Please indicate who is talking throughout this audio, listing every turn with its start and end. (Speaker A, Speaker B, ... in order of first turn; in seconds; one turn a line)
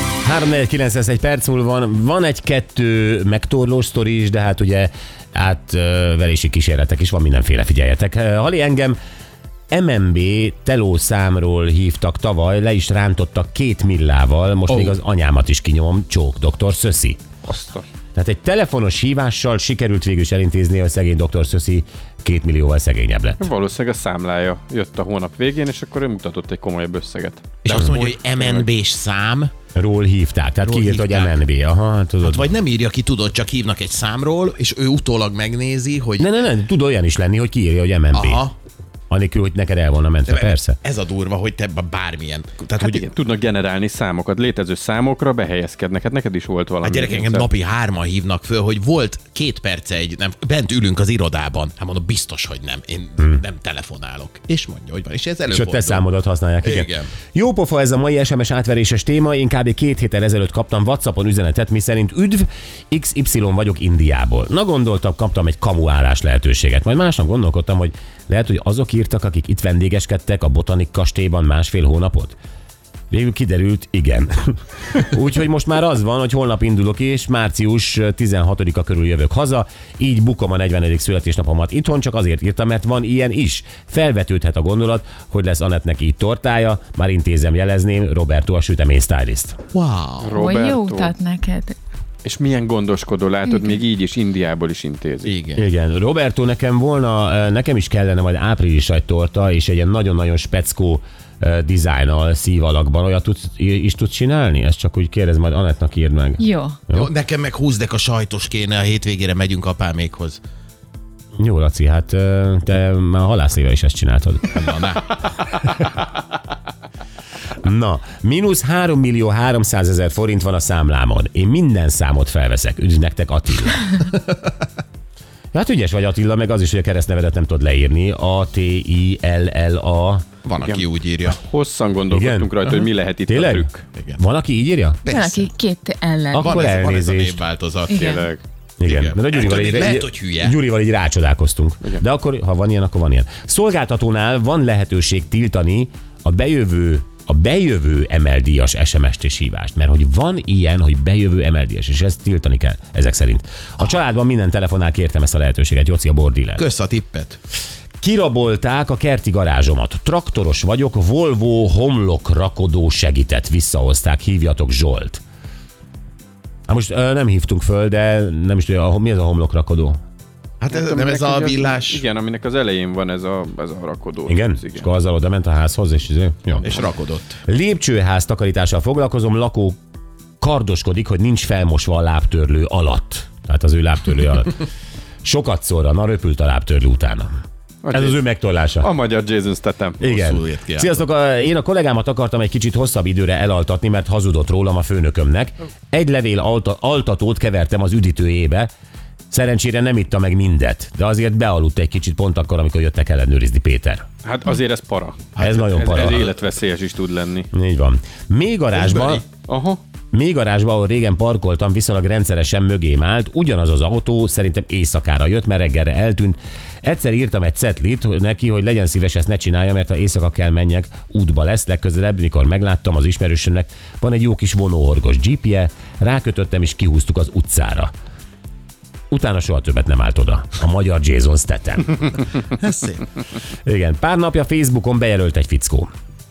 Speaker A: 0.2-9.0
Speaker A: 9.7-17.2
Speaker B: 14.7-15.0
Speaker C: 17.4-17.9
Speaker A: 18.1-23.4
Speaker C: 23.4-28.7
Speaker B: 27.6-29.5
Speaker A: 29.8-32.5
Speaker B: 30.6-31.4
Speaker B: 32.2-36.3
Speaker A: 36.2-38.4
Speaker B: 38.1-38.5
Speaker A: 39.1-40.8
Speaker B: 40.3-43.1
Speaker C: 42.8-47.5
Speaker B: 46.8-56.1
Speaker A: 55.5-72.4
Speaker B: 56.6-57.1
Speaker A: 73.1-89.6
Speaker B: 89.7-90.3
Speaker C: 90.2-91.1
Speaker D: 90.4-91.8
Speaker C: 92.2-95.3
Speaker B: 95.2-95.6
Speaker A: 95.6-107.1
Speaker D: 106.4-106.8
Speaker B: 106.9-110.4
Speaker A: 111.4-114.5
Speaker B: 114.5-115.2
Speaker A: 117.6-123.8
Speaker A: 125.5-130.3
Speaker B: 130.4-131.4
Speaker C: 130.6-133.9
Speaker A: 132.1-135.0
Speaker B: 134.0-134.2
Speaker B: 135.1-135.5
Speaker D: 135.1-136.5
Speaker A: 136.3-137.4
Speaker B: 136.3-138.1
Speaker D: 137.9-138.2
Speaker C: 137.9-138.4
Speaker A: 138.8-156.7
Speaker B: 138.8-140.6
Speaker B: 156.6-157.4
Speaker A: 158.0-165.2
Speaker A: 166.7-170.0
Speaker B: 170.6-172.0
Speaker C: 170.7-174.9
Speaker A: 174.3-176.7
Speaker B: 176.6-177.4
Speaker A: 177.5-179.8
Speaker A: 180.4-184.6
Speaker A: 185.2-187.3
Speaker C: 187.8-188.2
Speaker A: 187.9-188.9
Speaker C: 188.8-190.0
Speaker B: 190.0-190.9
Speaker A: 190.0-198.7
Speaker A: 199.3-204.1
Speaker C: 204.2-207.5
Speaker A: 205.4-206.3
Speaker B: 205.4-206.3
Speaker A: 207.5-209.2
Speaker B: 208.8-209.2
Speaker C: 209.5-209.8
Speaker A: 210.1-227.9
Speaker A: 229.1-232.0
Speaker B: 232.5-233.1
Speaker A: 233.7-235.9